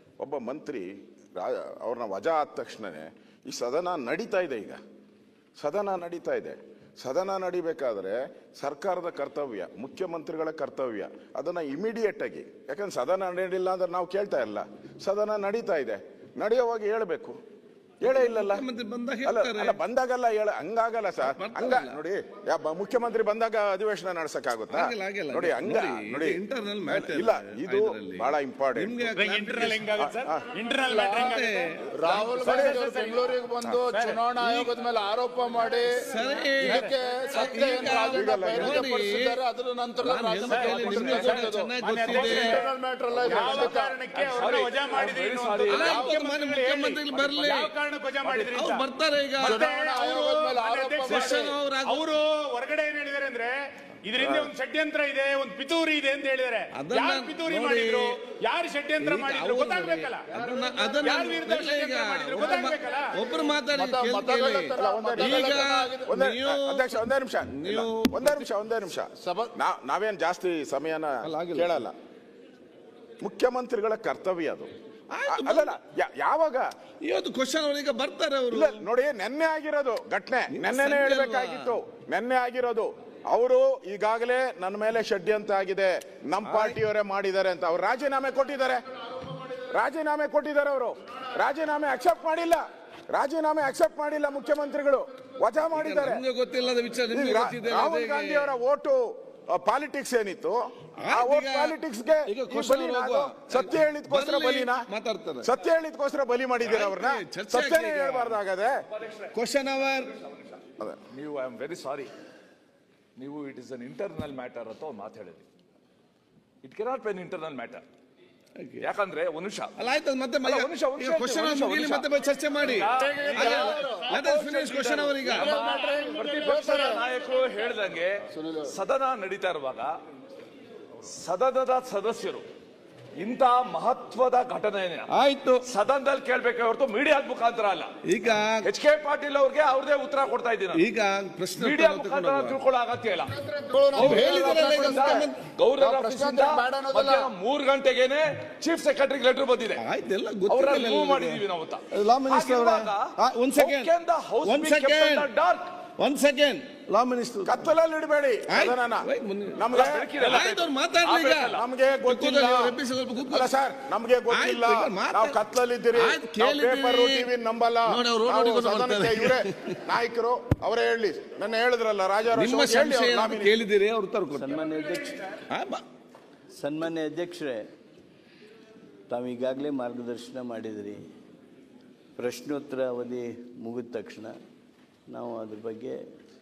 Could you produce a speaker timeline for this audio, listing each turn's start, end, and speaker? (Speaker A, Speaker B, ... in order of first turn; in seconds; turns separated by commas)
Speaker A: 0.2-4.8, Speaker A: 5.6-17.4, Speaker A: 18.0-18.6, Speaker B: 18.1-19.8, Speaker A: 19.2-29.1, Speaker B: 21.2-21.9, Speaker B: 24.7-29.9, Speaker C: 29.1-31.5, Speaker A: 30.0-30.4, Speaker D: 30.9-31.3, Speaker B: 31.2-32.4, Speaker D: 31.9-44.5, Speaker A: 32.4-32.8, Speaker C: 32.4-33.4, Speaker C: 33.9-34.3, Speaker B: 36.0-39.4, Speaker A: 38.1-38.9, Speaker B: 40.0-42.6, Speaker E: 40.4-41.6, Speaker C: 41.8-42.7, Speaker C: 43.3-48.9, Speaker E: 44.1-46.2, Speaker B: 45.6-47.7, Speaker D: 45.8-46.1, Speaker B: 48.5-52.1, Speaker C: 49.4-60.4, Speaker D: 49.4-51.5, Speaker B: 54.2-54.5, Speaker B: 56.7-58.2, Speaker B: 59.0-66.8, Speaker C: 61.0-63.1, Speaker D: 62.4-62.6, Speaker D: 63.7-66.1, Speaker A: 64.7-71.9, Speaker B: 67.5-68.4, Speaker D: 69.2-69.5, Speaker B: 71.2-71.7, Speaker A: 73.2-74.7, Speaker B: 75.1-75.7, Speaker A: 75.3-76.7, Speaker B: 77.0-78.8, Speaker A: 78.5-88.8, Speaker B: 80.5-81.7, Speaker B: 86.4-86.8, Speaker A: 89.5-96.2, Speaker B: 95.7-98.5, Speaker A: 97.1-104.8, Speaker B: 101.0-101.8, Speaker B: 102.3-105.5, Speaker A: 105.4-108.8, Speaker B: 106.6-108.4, Speaker B: 109.3-110.1, Speaker E: 111.1-112.1, Speaker E: 113.2-115.5, Speaker E: 116.6-117.8, Speaker B: 118.6-118.8, Speaker E: 118.8-119.8, Speaker B: 119.8-125.5, Speaker E: 120.4-122.1, Speaker E: 122.6-129.9, Speaker D: 122.9-124.4, Speaker D: 125.2-127.1, Speaker D: 128.3-128.7, Speaker E: 131.0-132.5, Speaker E: 133.2-135.1, Speaker B: 135.1-135.7, Speaker E: 135.6-137.9, Speaker B: 138.1-138.7, Speaker E: 138.6-140.8, Speaker B: 140.7-142.6, Speaker E: 141.5-143.3, Speaker D: 143.3-147.3, Speaker B: 143.9-145.4, Speaker E: 143.9-149.8, Speaker B: 149.8-155.3, Speaker E: 150.5-155.7, Speaker B: 156.0-157.6, Speaker A: 157.4-160.4, Speaker B: 158.5-159.7, Speaker E: 159.7-161.6, Speaker B: 160.2-161.5, Speaker A: 161.5-173.6, Speaker B: 162.1-163.5, Speaker B: 164.3-165.4, Speaker B: 165.9-167.3, Speaker B: 167.9-169.8, Speaker B: 172.3-174.4, Speaker F: 174.3-175.3, Speaker B: 175.5-175.8, Speaker F: 176.5-177.6, Speaker F: 179.1-181.0, Speaker F: 182.2-184.3, Speaker F: 185.1-186.0